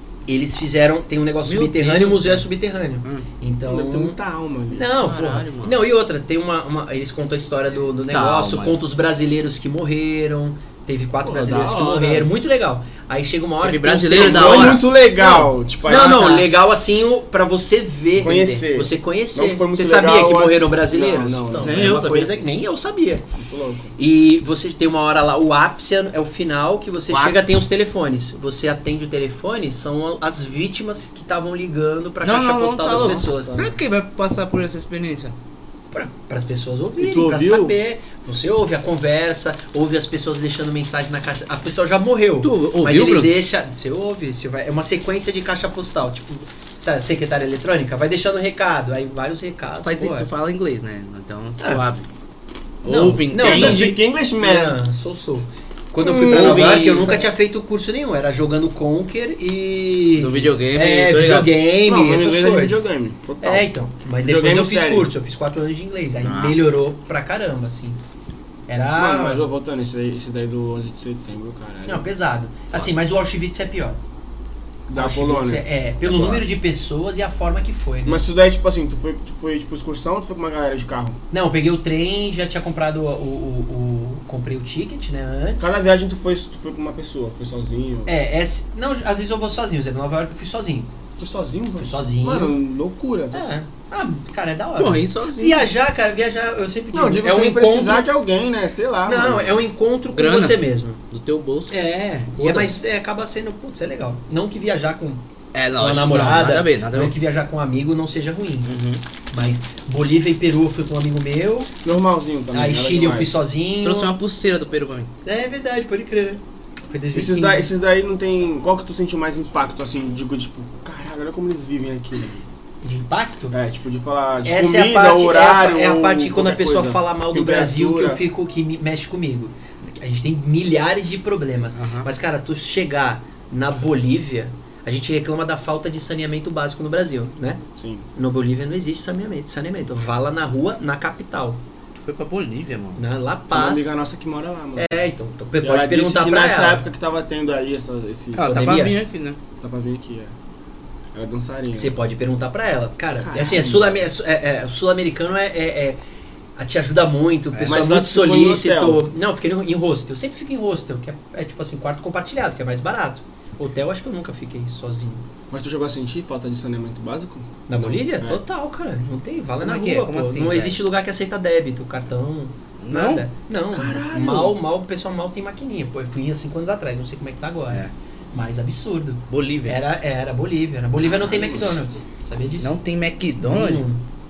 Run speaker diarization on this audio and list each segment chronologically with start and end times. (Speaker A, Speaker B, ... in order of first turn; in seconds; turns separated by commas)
Speaker A: 0.3-4.2, Speaker B: 1.4-2.5, Speaker C: 3.7-4.9, Speaker A: 4.7-23.2, Speaker B: 5.0-5.8, Speaker B: 8.1-8.8, Speaker C: 11.2-12.3, Speaker B: 13.6-14.9, Speaker C: 14.1-16.4, Speaker B: 15.9-16.4, Speaker C: 18.2-22.1, Speaker B: 18.3-18.6, Speaker B: 21.6-22.3, Speaker C: 23.4-23.9, Speaker A: 24.0-33.7, Speaker B: 27.1-27.4, Speaker B: 32.2-35.4, Speaker C: 32.9-33.8, Speaker A: 35.9-50.3, Speaker C: 37.0-37.8, Speaker B: 42.4-43.4, Speaker B: 49.8-52.1, Speaker B: 52.8-53.9, Speaker A: 52.9-68.0, Speaker C: 53.4-54.8, Speaker C: 56.0-57.2, Speaker B: 56.2-57.2, Speaker B: 60.2-61.5, Speaker C: 61.8-65.1, Speaker B: 66.2-66.6, Speaker A: 68.7-69.5, Speaker C: 69.0-72.1, Speaker A: 71.9-74.0, Speaker C: 74.9-75.7, Speaker A: 75.0-78.3, Speaker B: 76.1-76.4, Speaker C: 78.1-81.2, Speaker A: 81.3-85.7, Speaker C: 85.6-88.1, Speaker A: 88.1-90.9, Speaker C: 91.2-93.5, Speaker A: 91.8-92.6, Speaker A: 93.3-98.1, Speaker B: 94.8-95.7, Speaker C: 96.9-99.6, Speaker A: 99.1-101.0, Speaker B: 100.1-101.8, Speaker A: 101.7-105.2, Speaker B: 102.3-102.8, Speaker B: 105.5-107.2, Speaker A: 105.8-108.7, Speaker B: 108.7-109.0, Speaker A: 109.3-111.7, Speaker C: 111.8-113.5, Speaker A: 112.5-114.2, Speaker B: 113.8-115.1, Speaker A: 115.2-117.7, Speaker C: 117.1-122.5, Speaker A: 122.8-123.5, Speaker C: 123.5-128.2, Speaker A: 124.4-137.6, Speaker B: 131.8-132.1, Speaker C: 137.8-138.1, Speaker A: 138.2-141.6, Speaker B: 141.9-143.0, Speaker A: 143.0-144.0, Speaker C: 143.5-145.0, Speaker A: 144.8-146.8, Speaker C: 145.6-148.7, Speaker B: 148.3-149.4, Speaker A: 148.4-149.0, Speaker C: 149.6-150.3, Speaker C: 151.1-152.0, Speaker A: 151.7-156.0, Speaker C: 153.2-154.0, Speaker A: 156.6-165.3, Speaker B: 157.5-157.8, Speaker C: 157.7-159.0, Speaker C: 165.5-168.4, Speaker A: 167.7-182.7, Speaker B: 169.6-170.8, Speaker B: 172.8-173.2, Speaker C: 173.7-174.6, Speaker B: 179.3-179.8, Speaker C: 181.2-181.7, Speaker B: 182.6-183.8, Speaker A: 183.4-184.0